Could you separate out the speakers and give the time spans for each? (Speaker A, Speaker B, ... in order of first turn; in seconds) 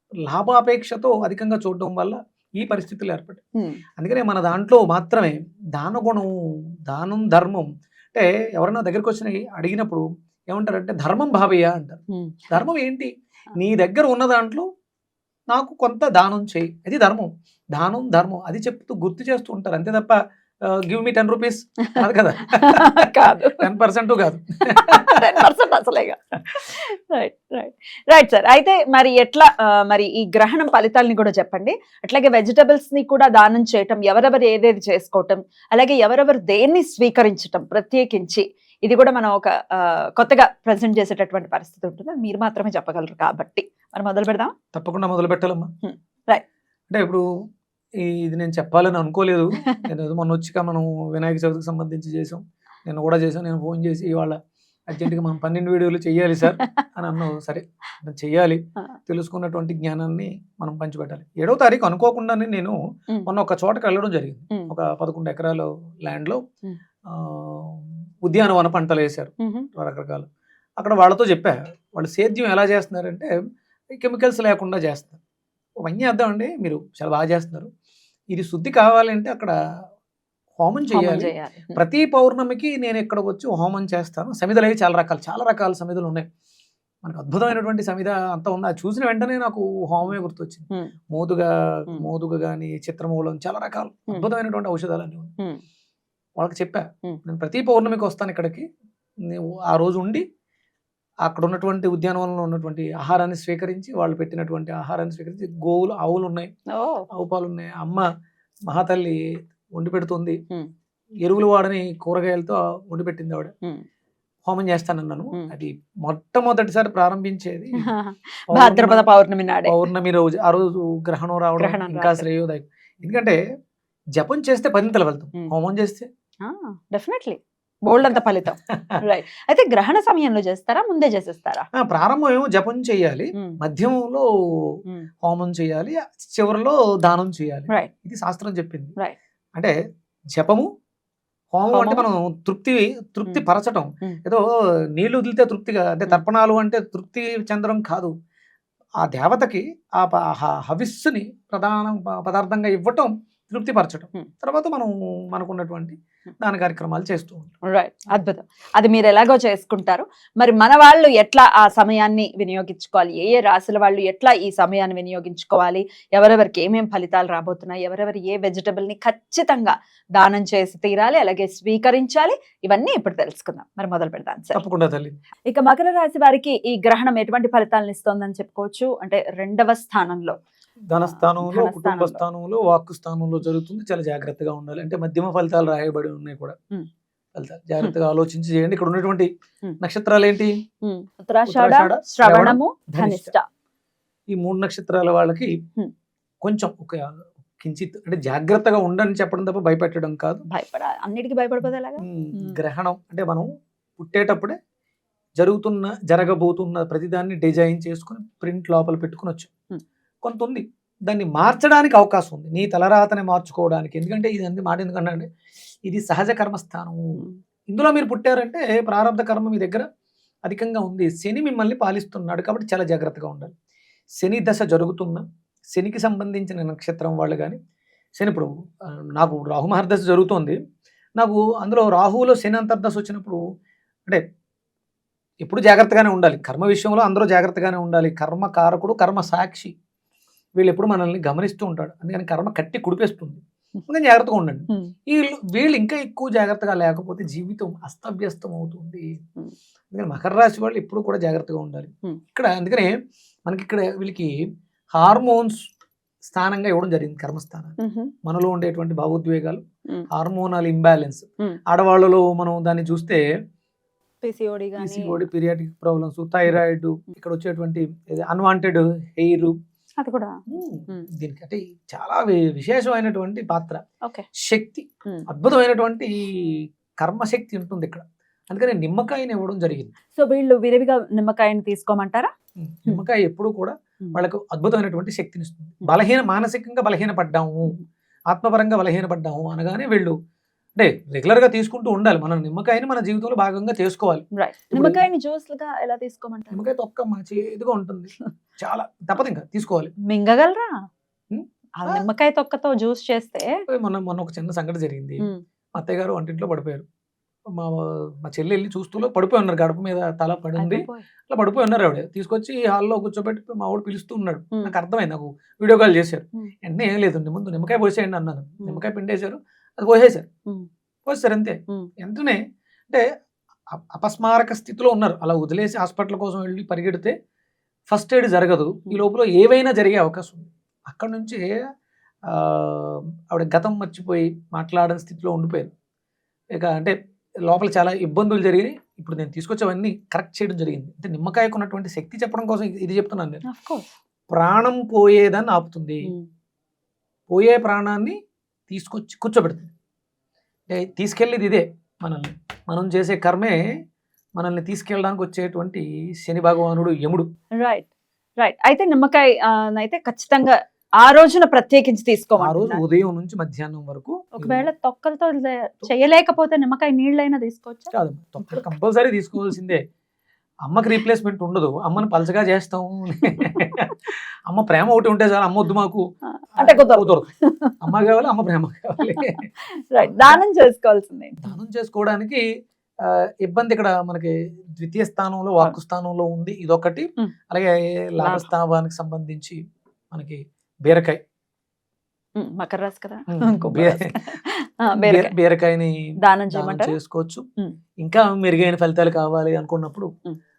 Speaker A: 0.2-3.4, 4.0-6.3, 6.9-12.0, 12.5-14.6, 15.5-20.1, 20.7-25.4, 44.7-45.7, 46.9-47.2, 48.0-54.4, 54.9-66.4, 67.1-70.3, 70.8-73.3, 74.0-75.2, 75.8-77.7, 78.3-79.5, 80.6-86.3, 87.0-95.3, 96.4-98.6, 99.3-100.2, 101.2-106.5, 107.1-108.0, 108.7-109.2, 109.8-110.4, 111.2-113.5, 114.5-117.9, 118.5-119.1, 119.7-123.4, 124.2-126.1, 128.1-129.0, 131.8-134.3, 135.2-138.9, 140.3-140.7, 141.5-144.4, 144.9-148.1, 149.0-157.5, 174.5-175.1, 180.9-186.5, 187.3-189.3, 189.8-190.5, 191.5-193.3, 194.3-195.6, 196.4-200.4, 202.0-204.6, 205.4-209.5, 210.2-215.3, 215.8-217.0, 217.7-219.8, 220.4-223.5, 224.2-227.6, 228.2-228.5, 229.1-230.6, 231.2-233.4, 235.4-239.7, 240.6-249.1, 249.9-252.9, 253.5-254.3, 254.9-255.6, 256.2-263.2, 264.8-269.5, 270.5-273.8, 274.4-279.9, 282.6-287.8, 288.3-290.1, 290.8-295.0, 296.5-299.9, 301.3-302.0, 303.7-305.2, 305.8-306.8, 307.5-320.3, 321.1-323.0, 323.7-327.1, 327.9-331.5, 332.3-335.7, 336.5-336.9, 337.5-343.4, 344.3-346.1, 347.3-348.1, 348.7-349.7, 350.7-353.6, 354.4-357.3, 362.4-364.7, 367.9-369.8, 370.6-376.0, 376.6-377.3, 377.8-379.5, 380.0-380.4, 381.4-382.4, 383.0-389.6, 390.1-391.2, 393.3-394.2, 394.9-395.9, 396.5-397.4, 398.0-400.1
Speaker B: 12.1-12.6, 21.9-23.7, 24.7-44.5, 45.8-46.4, 56.4-56.8, 69.4-69.7, 80.9-81.8, 106.7-107.0, 117.8-119.8, 121.6-122.2, 126.4-131.6, 141.7-142.0, 157.7-174.6, 175.5-180.3, 181.0-182.2, 190.8-193.4, 200.5-202.6, 257.8-258.1, 264.2-265.2, 270.0-271.1, 280.1-282.3, 294.3-296.6, 300.1-300.8, 301.8-303.6, 310.6-311.1, 343.5-343.9, 357.6-357.9, 358.4-362.8, 364.4-367.9, 376.3-377.7, 379.1-379.3, 379.9-381.5, 388.2-388.5, 392.4-395.3, 396.2-396.9